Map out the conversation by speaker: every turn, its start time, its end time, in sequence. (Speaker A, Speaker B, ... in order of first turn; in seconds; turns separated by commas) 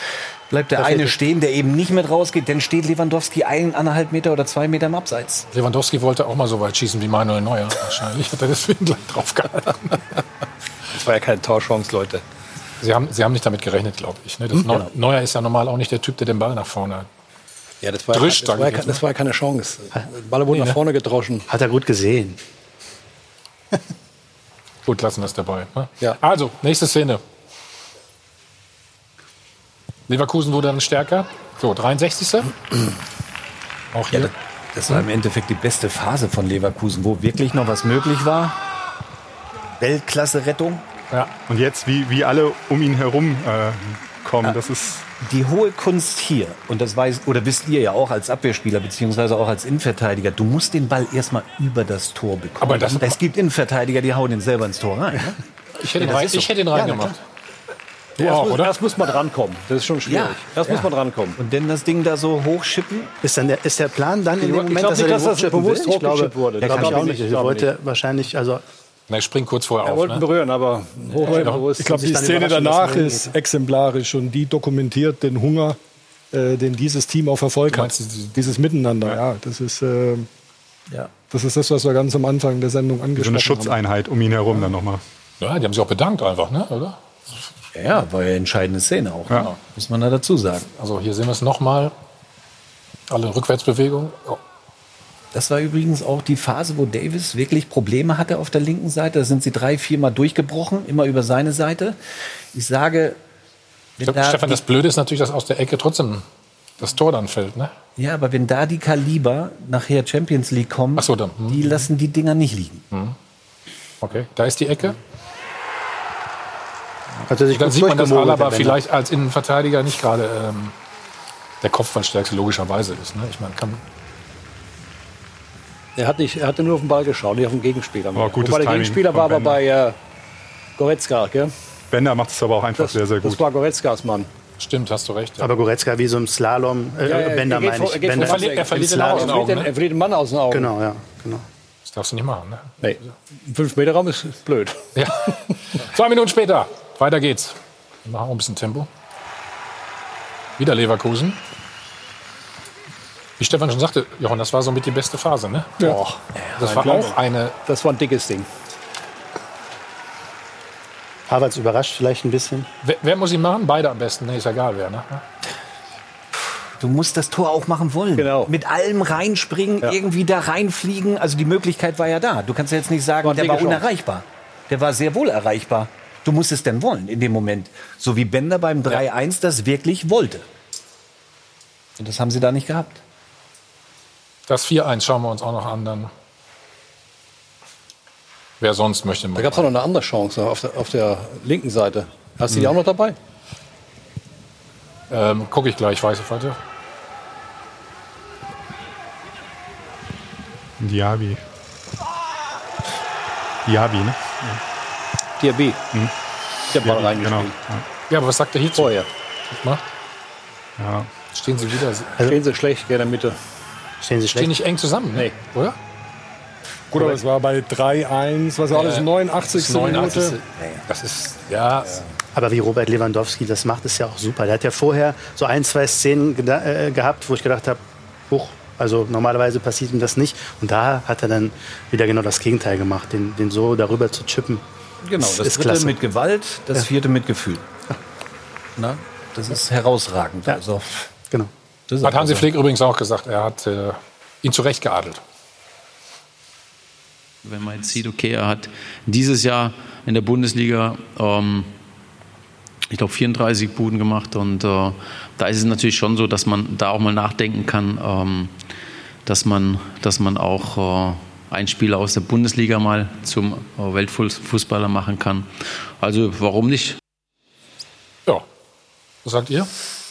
Speaker A: 0.5-5.5, Speaker B: 0.8-1.2, Speaker C: 5.5-10.1, Speaker D: 10.9-12.2, Speaker C: 12.8-17.1, Speaker D: 14.6-14.8, Speaker D: 17.8-21.4, Speaker C: 18.1-19.0, Speaker C: 20.5-20.8, Speaker B: 21.5-22.4, Speaker C: 24.9-27.2, Speaker C: 30.1-32.5, Speaker C: 33.9-34.3, Speaker A: 34.1-38.6, Speaker A: 39.8-40.8, Speaker E: 41.5-45.1, Speaker A: 45.2-55.4, Speaker C: 52.6-53.2, Speaker C: 55.8-57.2, Speaker A: 56.0-56.4, Speaker C: 58.2-58.7, Speaker D: 58.2-61.4, Speaker A: 60.0-63.1, Speaker B: 63.2-68.6, Speaker D: 64.4-67.7, Speaker A: 66.6-67.1, Speaker C: 69.1-70.2, Speaker D: 69.8-72.3, Speaker C: 71.1-71.6, Speaker F: 71.3-75.8, Speaker B: 71.9-73.3, Speaker F: 76.3-80.3, Speaker C: 77.7-78.3, Speaker F: 81.3-83.8, Speaker E: 83.2-85.0, Speaker C: 85.4-87.0, Speaker A: 87.7-90.7, Speaker C: 89.3-89.6, Speaker C: 90.8-91.9, Speaker C: 93.1-94.4, Speaker A: 95.3-102.0, Speaker A: 102.5-103.2, Speaker A: 104.0-104.6, Speaker C: 104.0-106.2, Speaker C: 106.8-107.7, Speaker A: 108.0-112.8, Speaker C: 111.0-111.8, Speaker C: 114.0-115.0, Speaker B: 117.3-118.8, Speaker C: 117.5-120.7, Speaker C: 121.6-123.8, Speaker D: 126.0-129.9, Speaker E: 128.2-129.6, Speaker D: 130.8-131.5, Speaker E: 131.9-133.4, Speaker D: 132.8-134.3, Speaker C: 134.6-135.5, Speaker B: 135.4-139.5, Speaker D: 137.0-140.7, Speaker C: 138.2-139.7, Speaker B: 140.5-141.4, Speaker C: 141.8-143.1, Speaker D: 142.8-144.8, Speaker C: 144.9-148.9, Speaker C: 150.6-151.4, Speaker C: 153.4-157.6, Speaker A: 156.4-156.9, Speaker D: 156.6-157.1, Speaker D: 157.7-158.5, Speaker B: 161.3-162.7, Speaker C: 162.8-165.2, Speaker A: 166.8-180.5, Speaker D: 168.2-168.5, Speaker D: 173.2-173.9, Speaker A: 182.0-183.0, Speaker C: 184.5-186.1, Speaker C: 188.6-189.7, Speaker D: 189.3-193.2, Speaker C: 195.1-196.6, Speaker E: 200.8-201.4, Speaker E: 203.7-204.6, Speaker D: 205.4-205.8, Speaker D: 206.7-207.5, Speaker E: 206.8-207.8, Speaker C: 208.1-209.0, Speaker D: 208.8-209.1, Speaker C: 209.5-209.8, Speaker E: 210.8-211.1, Speaker C: 211.3-212.2, Speaker D: 212.2-213.4, Speaker B: 214.0-214.5, Speaker C: 214.3-215.8, Speaker F: 216.9-220.4, Speaker C: 218.7-222.0, Speaker A: 220.6-220.8, Speaker B: 222.3-234.6, Speaker A: 235.0-237.7, Speaker B: 235.2-236.0, Speaker A: 238.8-241.1, Speaker A: 241.9-242.5, Speaker C: 242.0-245.2, Speaker G: 247.4-251.7, Speaker G: 252.9-258.6, Speaker G: 259.2-267.0, Speaker C: 269.2-269.7